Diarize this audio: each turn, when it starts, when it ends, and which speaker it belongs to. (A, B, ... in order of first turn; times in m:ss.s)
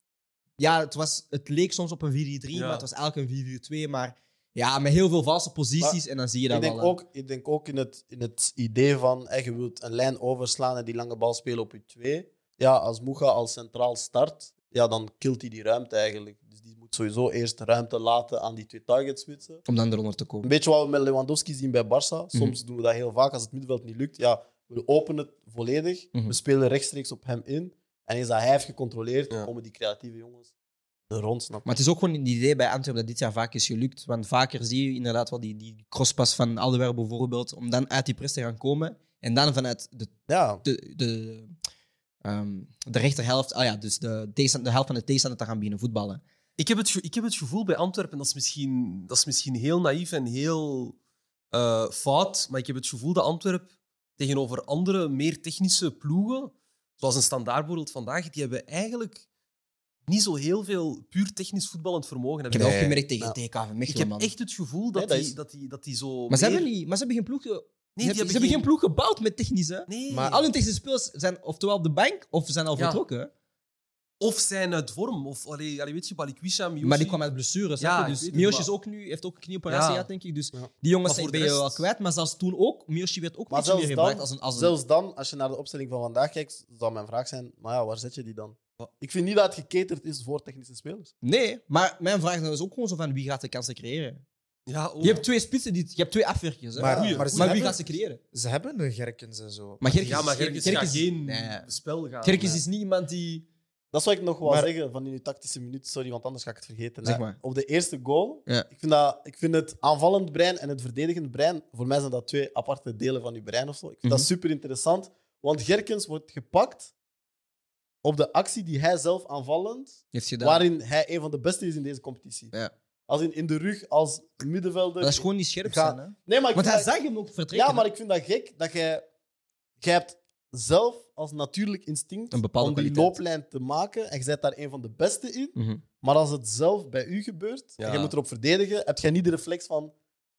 0:00.6-0:07.0 A
0:02.5-0:02.8 B
0:05.8-0:19.6 C
0:19.7-0:20.5 A
0:20.4-0:30.5 C
0:22.3-0:22.6 A
0:31.1-0:31.7 C
0:31.6-0:41.5 A
0:40.3-0:40.6 C
0:42.2-0:46.2 A
0:46.6-0:51.0 B
0:51.5-0:59.2 B
1:00.1-1:02.8 B
1:02.5-1:03.0 D
1:02.5-1:04.3 A
1:03.9-1:06.7 B
1:05.0-1:05.4 C
1:06.3-1:13.3 A
1:08.0-1:08.7 B
1:09.9-1:10.5 B
1:10.1-1:10.4 D
1:12.8-1:13.0 B
1:14.2-1:17.2 B
1:16.8-1:24.8 A
1:17.8-1:18.7 B
1:19.7-1:20.1 B
1:21.0-1:21.8 B
1:23.5-1:31.1 C
1:31.2-1:34.2 A
1:34.7-1:35.2 B
1:35.0-1:38.2 A
1:36.8-1:41.0 D
1:36.8-1:37.6 B
1:36.9-1:37.4 C
1:39.8-1:41.7 A
1:40.0-1:42.6 B
1:42.2-1:43.5 A
1:43.9-1:56.9 C
1:44.4-1:44.7 D
1:47.0-1:47.4 A
1:58.0-2:02.5 C
2:00.1-2:00.7 A
2:03.1-2:06.9 C
2:05.0-2:07.9 A
2:07.5-2:09.0 C
2:09.8-2:19.9 C
2:12.3-2:13.2 A
2:15.6-2:15.8 A
2:17.8-2:18.1 B